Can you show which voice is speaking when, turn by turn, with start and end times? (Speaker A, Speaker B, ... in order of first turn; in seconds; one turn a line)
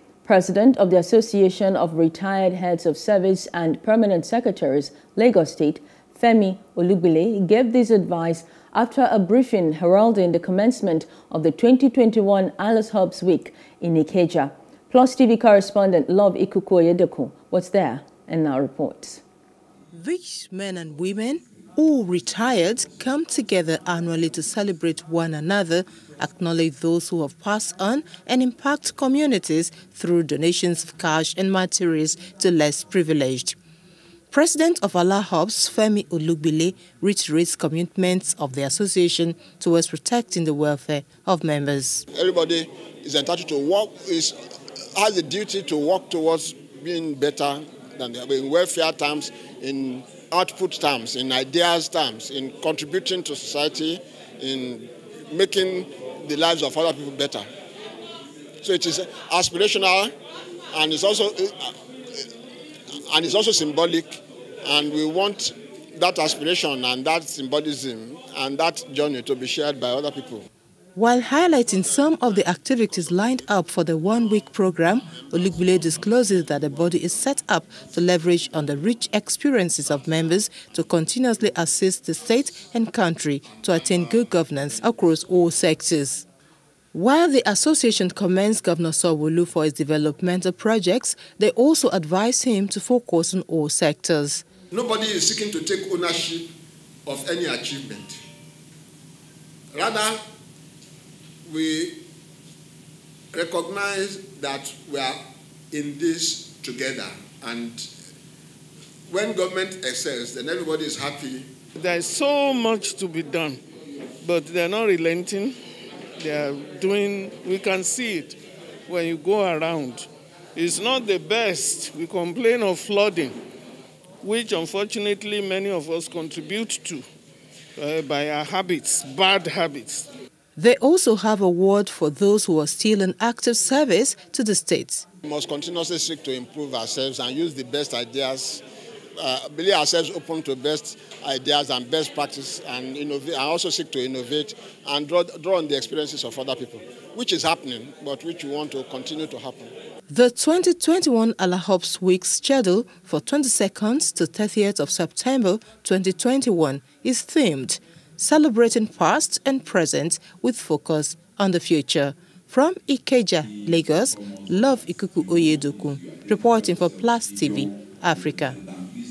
Speaker A: 0.2-19.2
Speaker B: 19.9-33.5
Speaker B: 34.3-42.0
Speaker C: 42.1-44.4
Speaker C: 44.9-57.5
Speaker C: 58.6-60.1
Speaker C: 60.7-62.3
Speaker C: 63.1-70.5
Speaker B: 71.0-86.2
Speaker B: 86.9-94.4
Speaker C: 94.7-96.5
Speaker C: 97.1-98.2
Speaker C: 99.7-100.2
Speaker C: 101.5-102.0
Speaker C: 103.3-107.9
Speaker C: 109.1-111.5
Speaker D: 111.8-113.6
Speaker D: 114.2-115.6
Speaker D: 116.2-118.4
Speaker D: 118.9-123.3
Speaker D: 124.2-127.0
Speaker D: 127.8-130.1
Speaker B: 130.6-135.0
Speaker C: 135.2-138.6
Speaker C: 139.2-149.7
Speaker B: 150.1-168.6